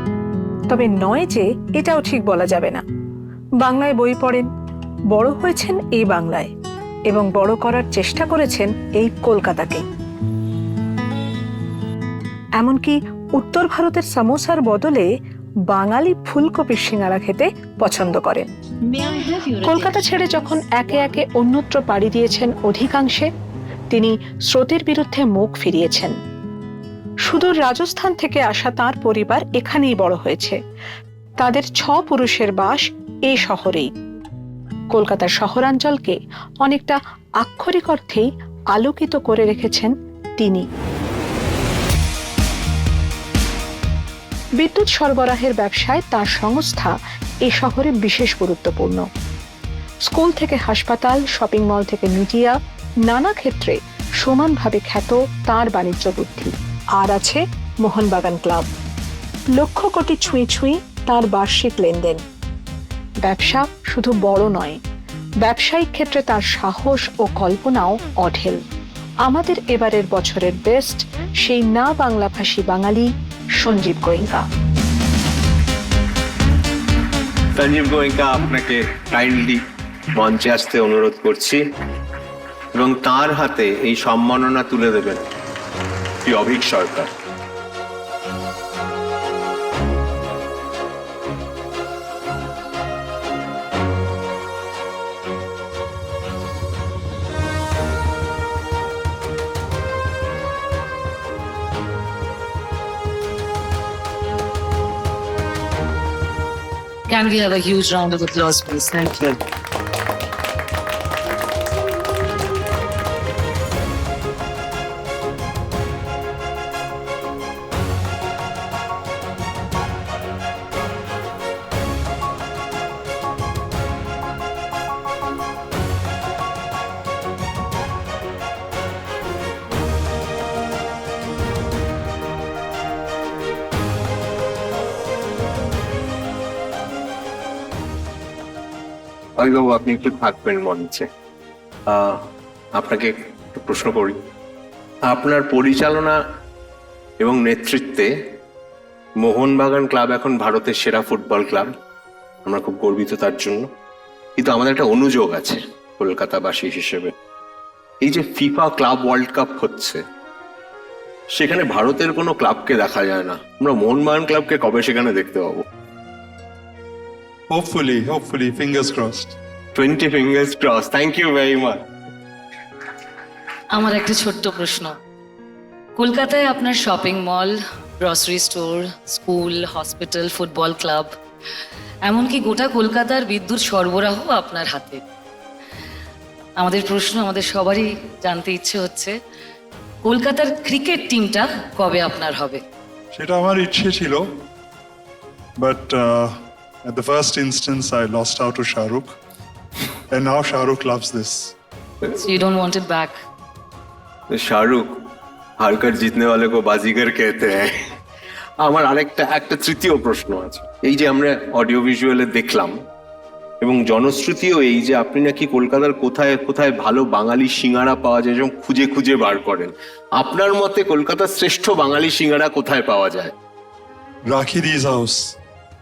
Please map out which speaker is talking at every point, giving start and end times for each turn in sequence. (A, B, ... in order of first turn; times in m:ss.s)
0:00.7-0:02.8 A
0:03.6-0:04.5 A
0:05.1-0:06.5 A
0:07.1-0:09.8 A
0:12.6-0:15.1 A
0:15.7-0:18.5 A
0:18.9-0:19.3 B
0:19.6-0:23.3 A
0:23.9-0:26.2 A
0:27.3-0:30.6 A
0:31.4-0:33.9 A
0:34.9-0:40.7 A
0:44.6-0:47.0 A
0:47.4-0:49.0 A
0:50.1-0:58.7 A
0:59.6-1:02.2 A
1:03.2-1:04.8 A
1:05.4-1:08.6 A
1:09.2-1:14.4 A
1:17.6-1:19.6 C
1:20.1-1:21.6 C
1:22.8-1:25.2 C
1:26.2-1:27.1 C
1:47.1-1:49.4 B
2:19.4-2:21.1 C
2:21.9-2:22.2 C
2:22.8-2:24.2 C
2:25.1-2:26.2 C
2:27.2-2:28.1 C
2:29.2-2:31.7 C
2:32.4-2:33.7 C
2:34.4-2:37.1 C
2:38.0-2:40.0 C
2:41.3-2:45.6 C
2:47.5-2:49.4 D
2:49.8-2:51.8 C
2:53.7-2:55.0 B
2:56.0-3:01.1 B
3:02.1-3:05.0 B
3:06.6-3:09.2 B
3:10.0-3:12.6 B
3:13.1-3:14.3 D
3:15.6-3:19.2 D
3:20.1-3:21.6 D
3:22.1-3:23.1 B
3:24.3-3:24.9 C
3:25.6-3:27.8 C
3:28.6-3:32.7 C
3:33.6-3:43.3 C
3:44.3-3:45.4 D